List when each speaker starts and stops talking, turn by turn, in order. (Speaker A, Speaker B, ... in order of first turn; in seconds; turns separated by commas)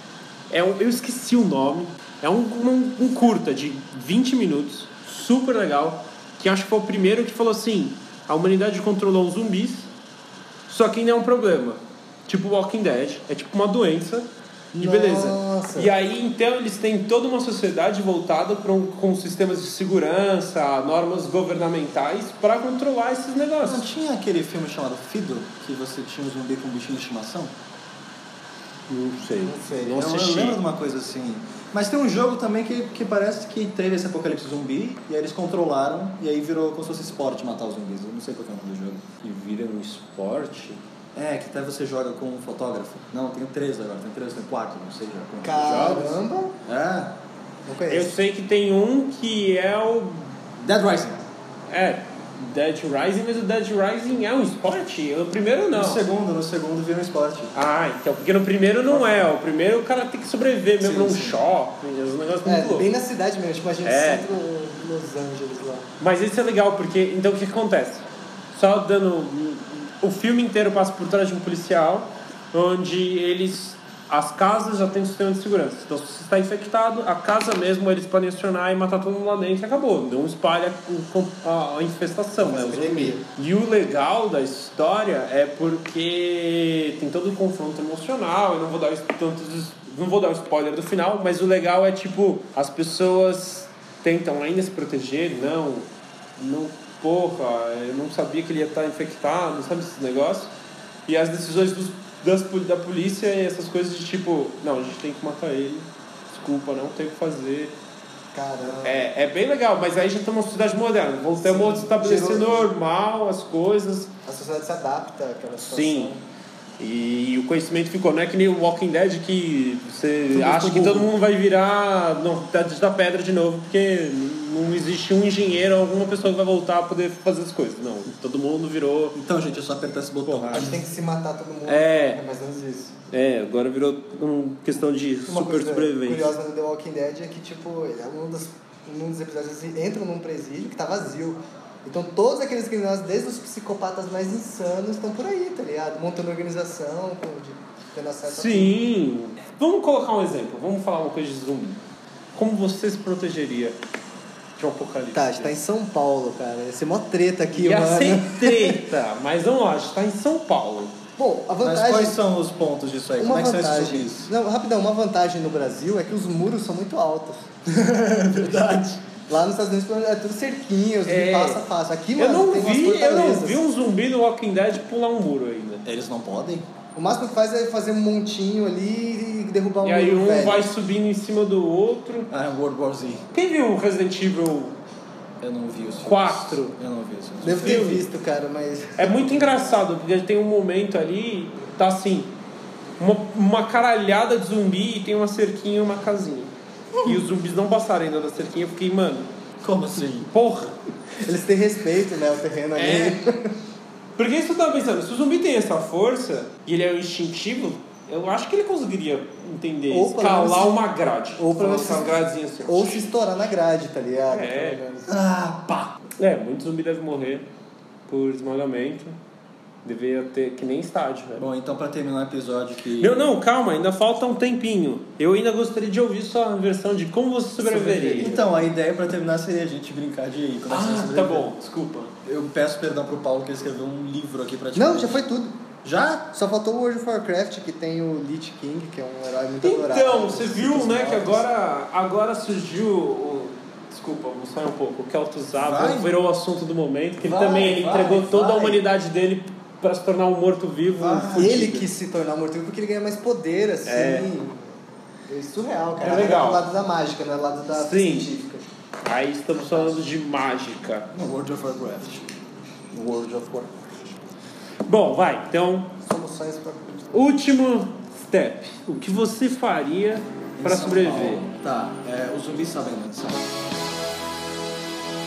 Speaker A: 0.5-9.9, Speaker A: 10.7-23.9, Speaker B: 14.8-15.9, Speaker C: 23.6-27.5, Speaker A: 28.9-30.6, Speaker B: 29.4-30.0, Speaker C: 29.9-39.0, Speaker A: 39.2-40.8, Speaker C: 41.1-46.1, Speaker B: 45.4-46.5, Speaker A: 45.5-46.2, Speaker C: 46.6-47.1, Speaker B: 47.7-48.1, Speaker A: 47.9-50.3, Speaker C: 50.6-51.2, Speaker A: 51.7-56.0, Speaker C: 55.7-57.5, Speaker A: 57.5-62.9, Speaker B: 58.9-59.3, Speaker C: 60.8-61.3, Speaker B: 62.4-65.9, Speaker A: 63.8-64.3, Speaker A: 66.0-100.5, Speaker B: 82.4-83.2, Speaker A: 101.1-107.8, Speaker B: 108.3-109.1, Speaker A: 108.8-114.1, Speaker B: 111.4-112.7, Speaker B: 114.3-116.2, Speaker A: 115.6-116.2, Speaker A: 116.8-129.2, Speaker C: 120.3-121.1, Speaker C: 129.2-130.8, Speaker A: 130.3-130.7, Speaker B: 130.5-133.0, Speaker A: 131.7-132.2, Speaker A: 133.1-136.3, Speaker B: 135.3-148.8, Speaker A: 148.3-151.8, Speaker A: 152.3-153.8, Speaker A: 154.6-155.6, Speaker B: 155.1-158.8, Speaker A: 157.5-161.0, Speaker B: 161.2-162.2, Speaker C: 161.6-164.3, Speaker B: 163.2-167.5, Speaker C: 167.7-169.0, Speaker B: 168.4-173.6, Speaker A: 171.1-171.6, Speaker A: 172.2-175.8, Speaker C: 175.8-176.7, Speaker B: 177.0-180.7, Speaker A: 179.8-182.3, Speaker C: 182.3-183.3, Speaker A: 183.3-184.8, Speaker C: 185.4-187.9, Speaker A: 186.0-186.8, Speaker B: 187.4-189.7, Speaker A: 187.6-188.0, Speaker A: 189.0-192.3, Speaker A: 193.0-196.5, Speaker A: 197.0-199.3, Speaker C: 199.6-200.3, Speaker A: 200.2-200.8, Speaker B: 201.2-203.5, Speaker A: 202.8-203.2, Speaker A: 204.2-213.0, Speaker B: 209.9-215.1, Speaker A: 214.3-214.8, Speaker C: 215.1-215.9, Speaker A: 216.2-217.5, Speaker A: 218.1-219.2, Speaker A: 219.8-221.5, Speaker C: 221.4-223.2, Speaker A: 223.0-228.3, Speaker B: 227.6-228.6, Speaker C: 228.2-231.5, Speaker A: 230.7-232.1, Speaker C: 232.2-235.2, Speaker B: 234.8-235.6, Speaker C: 235.8-236.3, Speaker B: 236.3-241.4, Speaker A: 239.6-251.8, Speaker C: 245.6-246.1, Speaker C: 247.2-248.8, Speaker C: 251.0-251.8, Speaker B: 251.4-254.8, Speaker A: 253.8-254.3, Speaker B: 255.3-258.6, Speaker A: 256.0-256.6, Speaker A: 257.7-258.3, Speaker A: 259.1-261.1, Speaker B: 259.6-260.0, Speaker C: 261.1-262.3, Speaker C: 262.9-263.7, Speaker A: 264.9-265.9, Speaker B: 266.0-267.2, Speaker A: 267.1-271.4, Speaker C: 270.6-273.5